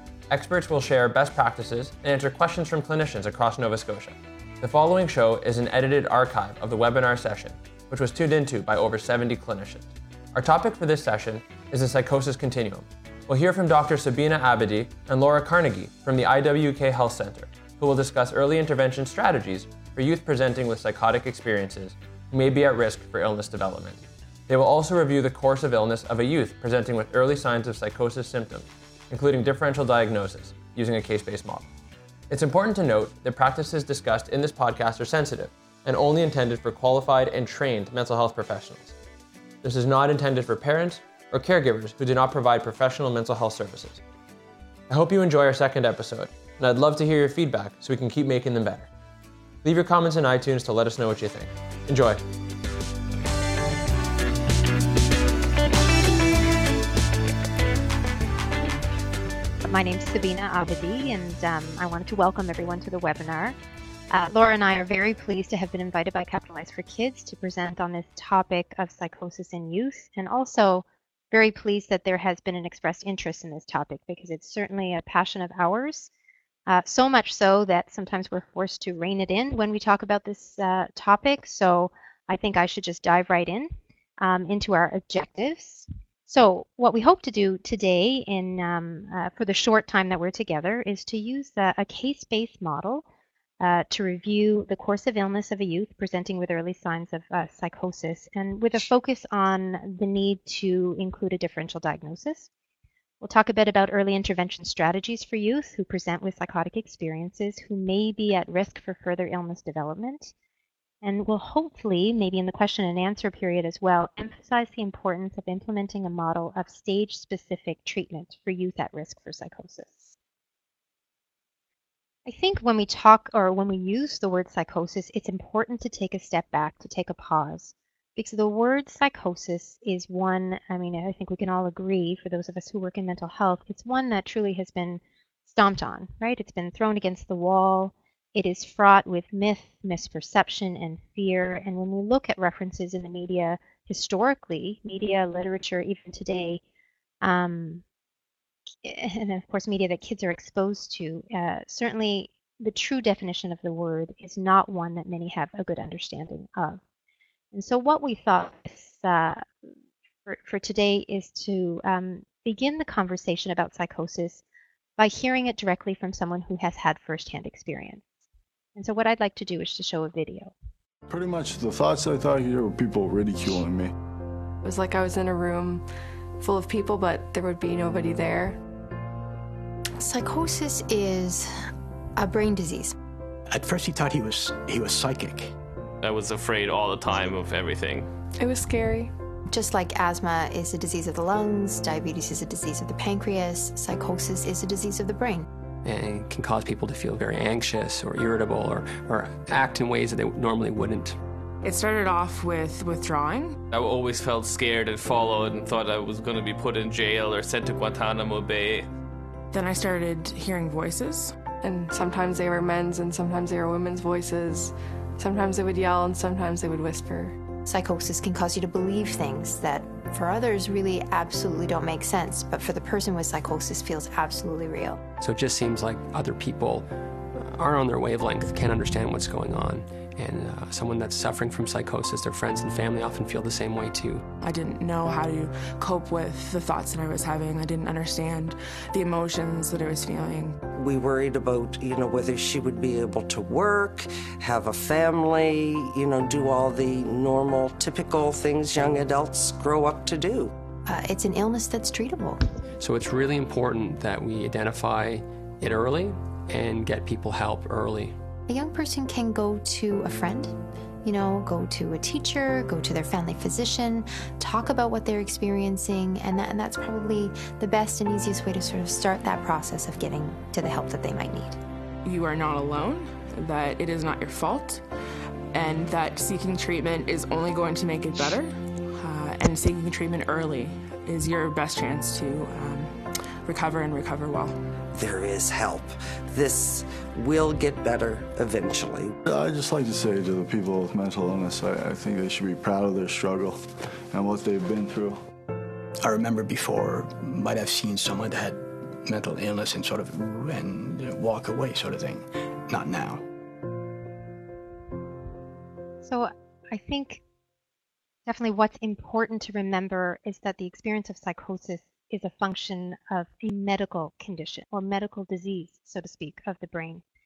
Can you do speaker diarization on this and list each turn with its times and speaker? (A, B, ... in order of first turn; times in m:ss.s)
0:00.3-0:31.7 A
0:32.3-0:38.9 A
0:39.6-0:44.0 A
0:44.9-0:48.9 A
0:49.6-0:52.2 A
0:59.6-1:03.6 B
1:04.1-1:16.1 B
1:16.7-1:33.0 B
1:33.6-1:42.5 B
1:43.2-1:50.3 B
1:51.0-2:00.1 B
2:02.2-2:26.6 B
2:27.2-2:27.8 B
2:28.8-2:36.8 B
2:37.5-2:39.4 B
2:40.2-2:44.4 B
2:45.0-2:48.1 B
2:48.8-2:50.5 B
2:51.1-2:53.9 C
2:54.6-2:55.8 D
2:56.4-2:58.6 D
3:00.0-3:01.5 E
3:02.2-3:02.9 E
3:03.5-3:05.5 F
3:06.0-3:08.1 G
3:08.4-3:09.1 D
3:09.5-3:15.4 E
3:15.8-3:21.2 H
3:21.6-3:23.6 I
3:23.7-3:28.9 G
3:29.5-3:31.4 I
3:31.6-3:37.4 D
3:37.6-3:45.0 E
3:45.2-3:54.2 H
3:54.4-4:00.6 I
4:00.7-4:10.5 J
4:10.9-4:12.4 E
4:12.8-4:18.2 H
4:18.5-4:31.6 E
4:32.0-4:34.8 I
4:35.5-4:44.5 I
4:44.9-4:49.1 J
4:49.2-4:55.2 C
4:56.0-5:03.2 F
5:06.0-5:07.2 B
5:08.2-5:17.0 B